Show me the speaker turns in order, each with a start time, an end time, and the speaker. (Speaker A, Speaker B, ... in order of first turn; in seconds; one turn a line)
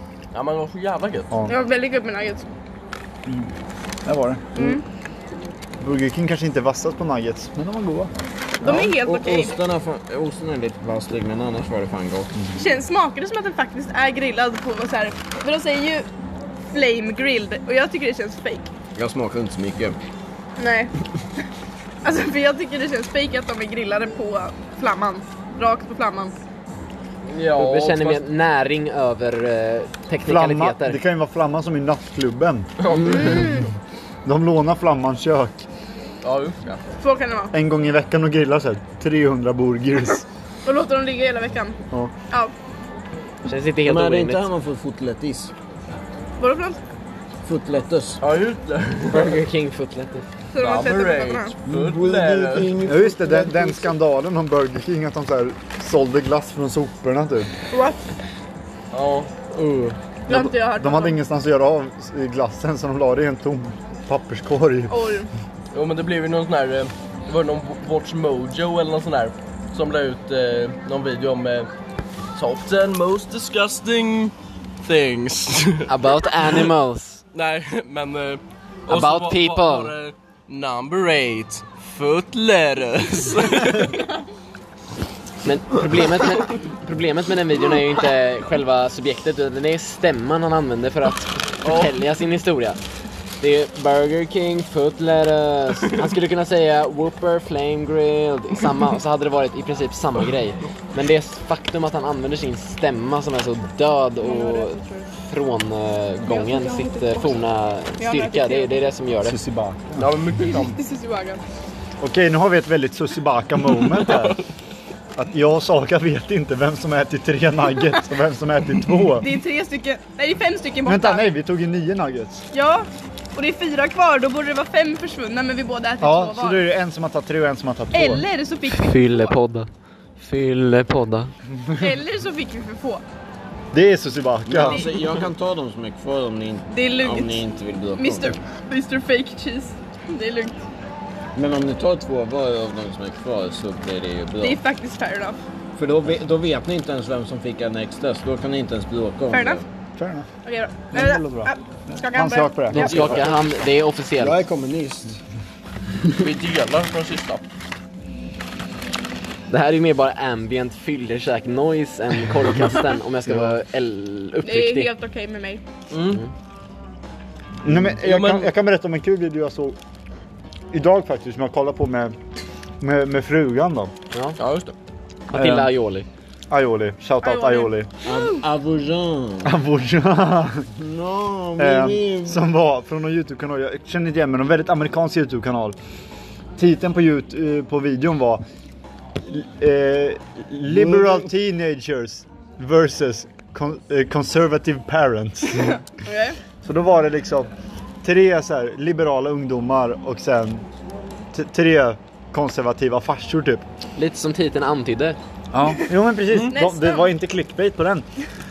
Speaker A: 0.3-1.3
Speaker B: 1.3-1.6
Speaker C: 1.5-2.5
Speaker B: 3.3-3.5
Speaker B: 4.0-4.5
Speaker C: 4.6-4.8
Speaker B: 5.8-8.1
Speaker C: 8.6-9.6
Speaker D: 8.6-12.4
Speaker C: 12.6-16.1
Speaker C: 16.7-18.7
Speaker D: 18.9-20.0
Speaker C: 20.6-20.9
Speaker C: 22.0-26.4
Speaker A: 27.3-28.2
Speaker E: 27.6-31.0
Speaker B: 30.2-33.3
Speaker A: 32.8-33.5
Speaker C: 33.0-33.7
Speaker B: 34.2-35.7
Speaker A: 36.2-36.8
Speaker C: 37.0-37.5
Speaker B: 37.5-40.2
Speaker C: 40.6-41.8
Speaker E: 43.5-44.5
Speaker D: 43.9-45.5
Speaker C: 46.4-46.8
Speaker D: 47.5-48.2
Speaker A: 48.2-49.4
Speaker E: 49.1-50.3
Speaker C: 50.5-51.6
Speaker A: 50.6-52.8
Speaker D: 51.7-53.9
Speaker B: 52.8-57.5
Speaker C: 57.7-58.2
Speaker A: 58.9-59.3
Speaker E: 59.5-60.0
Speaker C: 60.3-61.2
Speaker B: 60.3-65.0
Speaker C: 64.9-65.3
Speaker A: 65.7-71.7
Speaker A: 72.3-75.8
Speaker E: 75.9-77.2
Speaker A: 77.3-84.1
Speaker E: 78.9-79.9
Speaker E: 85.4-92.8
Speaker A: 91.6-92.0
Speaker E: 93.4-109.4
Speaker C: 104.2-105.1
Speaker C: 106.3-107.4
Speaker C: 108.0-108.9
Speaker B: 109.2-110.1
Speaker A: 110.0-110.8
Speaker C: 110.4-111.4
Speaker B: 112.0-114.4
Speaker A: 113.7-114.4
Speaker B: 115.2-119.3
Speaker C: 119.2-121.3
Speaker B: 120.9-122.5
Speaker C: 122.5-126.6
Speaker B: 126.0-128.2
Speaker C: 127.9-129.3
Speaker E: 128.7-131.3
Speaker C: 131.8-133.0
Speaker B: 133.7-134.9
Speaker D: 134.5-138.4
Speaker C: 136.7-137.4
Speaker C: 137.9-140.6
Speaker D: 141.3-144.6
Speaker C: 144.4-145.4
Speaker D: 145.8-149.7
Speaker C: 149.3-149.6
Speaker B: 150.0-150.3
Speaker C: 150.4-153.2
Speaker B: 150.9-153.1
Speaker E: 152.7-154.4
Speaker D: 153.1-153.4
Speaker D: 154.2-155.2
Speaker A: 156.2-157.4
Speaker E: 159.5-164.9
Speaker B: 163.3-163.6
Speaker C: 164.4-165.6
Speaker A: 165.9-166.2
Speaker B: 167.6-169.8
Speaker A: 168.0-168.5
Speaker B: 170.7-172.2
Speaker B: 172.8-173.9
Speaker E: 174.1-174.4
Speaker A: 174.4-174.8
Speaker E: 175.3-176.1
Speaker B: 175.3-175.7
Speaker B: 176.5-177.9
Speaker C: 177.2-178.4
Speaker D: 178.0-179.5
Speaker B: 179.4-180.7
Speaker D: 180.8-182.4
Speaker B: 181.6-185.8
Speaker B: 186.6-188.4
Speaker B: 189.2-195.8
Speaker D: 190.7-191.3
Speaker C: 196.1-196.4
Speaker B: 196.6-197.5
Speaker B: 198.0-200.7
Speaker B: 201.3-203.7
Speaker E: 204.0-205.2
Speaker B: 205.5-208.1
Speaker C: 206.5-207.1